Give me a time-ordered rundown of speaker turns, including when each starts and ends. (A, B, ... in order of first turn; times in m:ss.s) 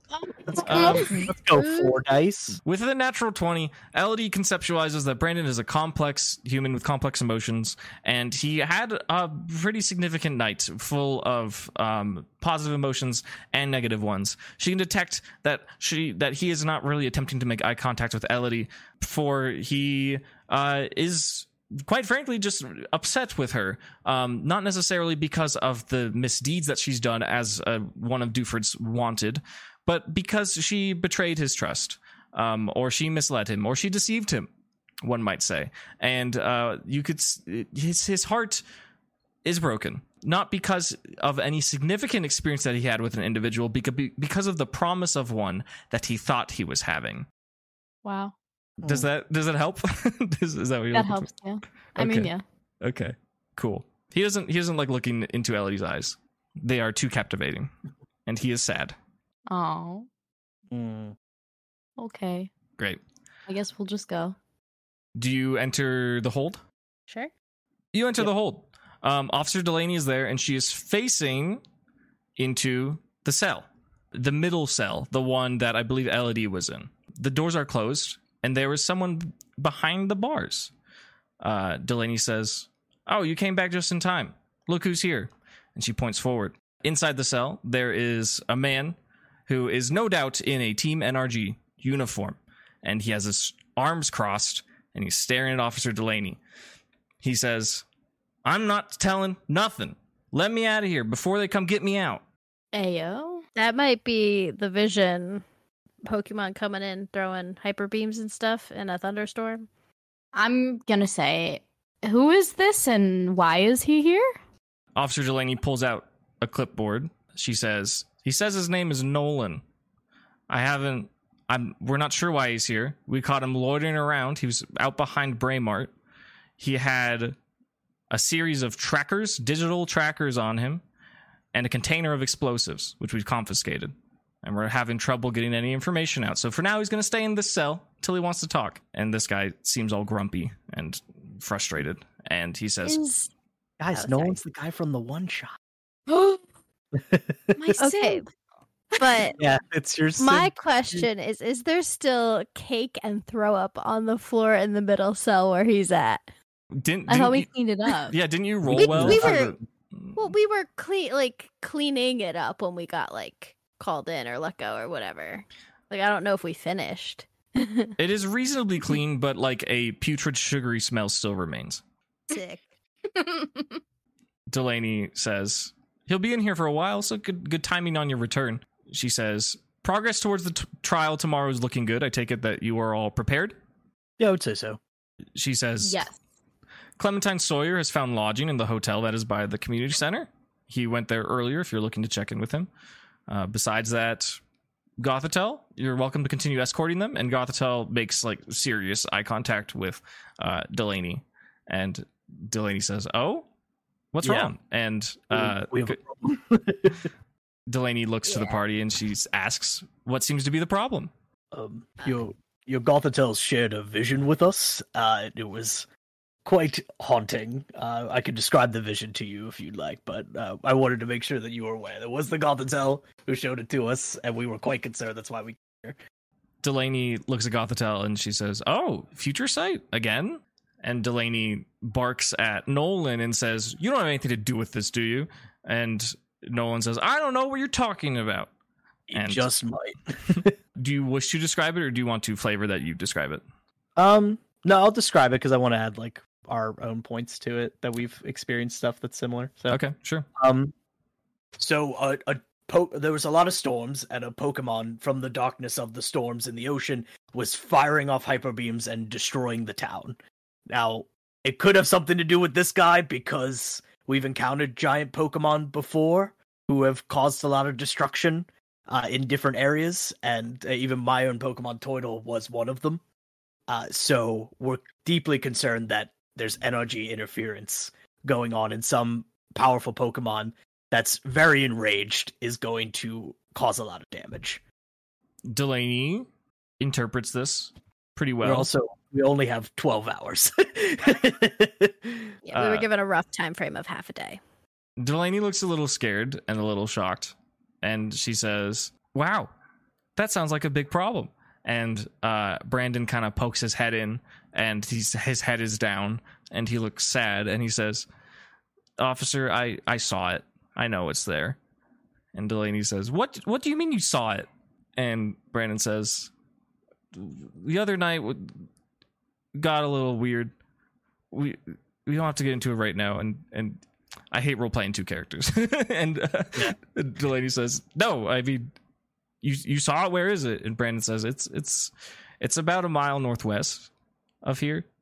0:00.5-0:02.6 A
0:00.6-0:01.2 B
0:00.6-0:01.3 C
0:02.6-0:34.5 B
0:35.0-0:38.6 B
0:39.4-0:47.3 B
0:48.0-0:48.4 C
0:48.8-0:49.1 A
0:48.8-0:51.3 B
0:50.9-0:52.4 C
0:52.0-0:52.3 B
0:52.8-0:57.7 B
0:58.3-0:59.0 B
0:59.5-1:00.1 C
1:00.7-1:01.2 A
1:02.0-1:02.5 C
1:03.5-1:04.4 C
1:05.2-1:06.6 B
1:07.9-1:11.6 B
1:12.4-1:20.7 B
1:21.4-1:36.4 B
1:37.2-1:37.8 B
1:38.4-1:42.2 B
1:42.7-1:43.4 C
1:43.6-1:45.4 D
1:46.1-1:49.6 D
1:50.3-1:54.3 C
1:55.0-1:59.6 B
2:00.5-2:05.9 B
2:06.6-2:07.4 B
2:08.1-2:10.8 B
2:11.5-2:23.0 B
2:22.8-2:23.3 D
2:23.8-2:25.6 A
2:23.9-2:24.4 D
2:26.1-2:26.4 C
2:26.9-2:27.8 A
2:27.6-2:28.3 C
2:27.8-2:28.2 D
2:29.0-2:29.4 D
2:29.4-2:31.1 A
2:30.2-2:36.3 D
2:36.7-2:37.5 B
2:37.1-2:38.2 C
2:38.1-2:40.2 B
2:38.6-2:39.6 A
2:38.7-2:39.6 D
2:40.2-2:48.0 D
2:48.0-2:51.8 B
2:52.3-2:52.6 D
2:53.2-2:53.7 C
2:54.5-3:03.6 B
3:04.2-3:04.8 A
3:05.4-3:06.0 B
3:05.8-3:06.2 C
3:07.0-3:12.7 B
3:13.3-3:14.4 B
3:15.0-3:23.5 B
3:24.1-3:26.0 B
3:24.2-3:24.5 A
3:25.3-3:27.1 A
3:27.7-3:31.1 B
3:28.3-3:28.6 D
3:31.5-3:35.9 A
3:36.4-3:46.0 A
3:46.6-3:58.5 B
3:59.1-4:00.6 A
3:59.1-3:59.5 B
4:00.8-4:03.4 B
4:04.0-4:09.8 A
4:09.7-4:10.3 B
4:10.4-4:10.7 A
4:11.6-4:20.2 A
4:20.7-4:33.0 A
4:33.7-4:44.6 A
4:45.4-4:46.3 B
4:46.8-4:48.7 B
4:48.4-4:52.3 A
4:52.5-4:54.4 D
4:52.5-4:52.9 B
4:55.0-4:59.5 B
5:00.2-5:08.1 B
5:09.0-5:11.6 B
5:12.3-5:16.3 B
5:17.1-5:18.7 B
5:19.6-5:20.5 B
5:21.3-5:28.7 B
5:29.4-5:33.9 B
5:34.4-5:34.9 B